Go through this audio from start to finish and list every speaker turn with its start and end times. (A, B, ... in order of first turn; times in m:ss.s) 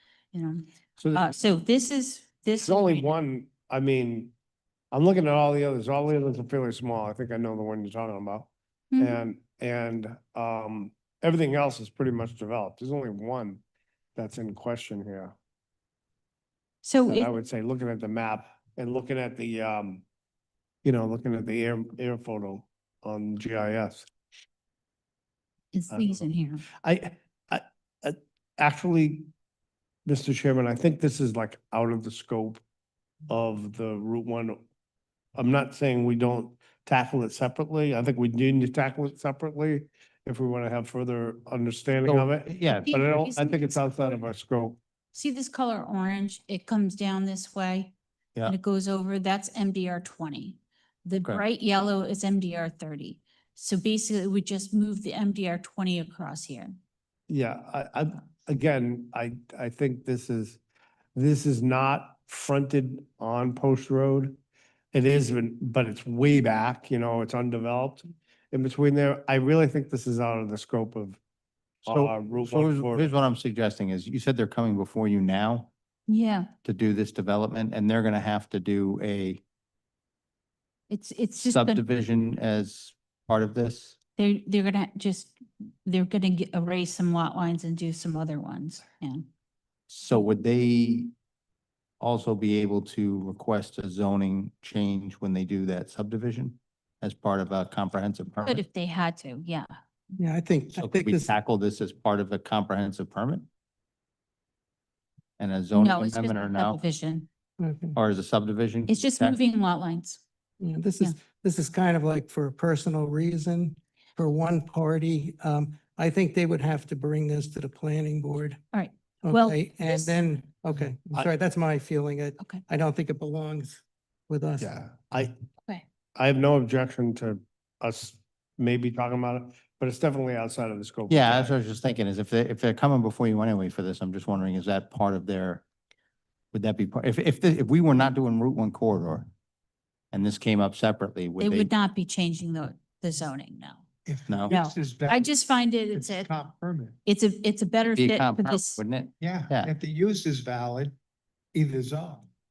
0:00.3-0:03.1 A
0:01.0-0:01.3 B
0:02.6-0:04.3 B
0:04.9-0:13.6 B
0:08.9-0:09.2 A
0:14.2-0:15.4 B
0:16.8-0:17.3 A
0:17.1-0:20.0 B
0:20.8-0:24.1 B
0:25.7-0:26.6 A
0:25.9-0:26.2 B
0:26.8-0:29.3 B
0:30.1-0:32.6 B
0:33.3-0:34.6 B
0:35.4-0:44.8 B
0:42.1-0:43.4 C
0:42.8-0:44.1 A
0:45.1-0:47.9 A
0:48.5-0:56.8 A
0:57.3-1:00.6 B
1:01.2-1:04.4 B
1:04.9-1:11.2 B
1:11.8-1:13.1 B
1:11.9-1:15.7 C
1:16.1-1:16.5 A
1:16.6-1:19.4 C
1:20.9-1:21.8 A
1:21.4-1:24.0 C
1:24.2-1:29.2 A
1:29.9-1:31.1 C
1:32.0-1:38.6 C
1:38.4-1:39.7 A
1:40.2-1:41.3 D
1:40.8-1:43.5 C
1:45.4-1:46.8 C
1:45.7-1:47.3 A
1:47.6-1:48.0 D
1:48.0-1:49.4 C
1:48.9-1:50.2 A
1:50.6-1:58.6 D
1:58.7-2:00.2 A
1:59.2-2:04.8 D
2:04.6-2:05.3 B
2:06.2-2:11.6 B
2:11.1-2:15.6 C
2:16.5-2:19.3 C
2:20.1-2:21.7 C
2:21.4-2:23.8 A
2:24.1-2:27.0 E
2:24.3-2:24.6 C
2:24.5-2:26.3 A
2:27.0-2:28.8 A
2:28.0-2:29.7 C
2:29.2-2:31.0 E
2:31.5-2:32.3 E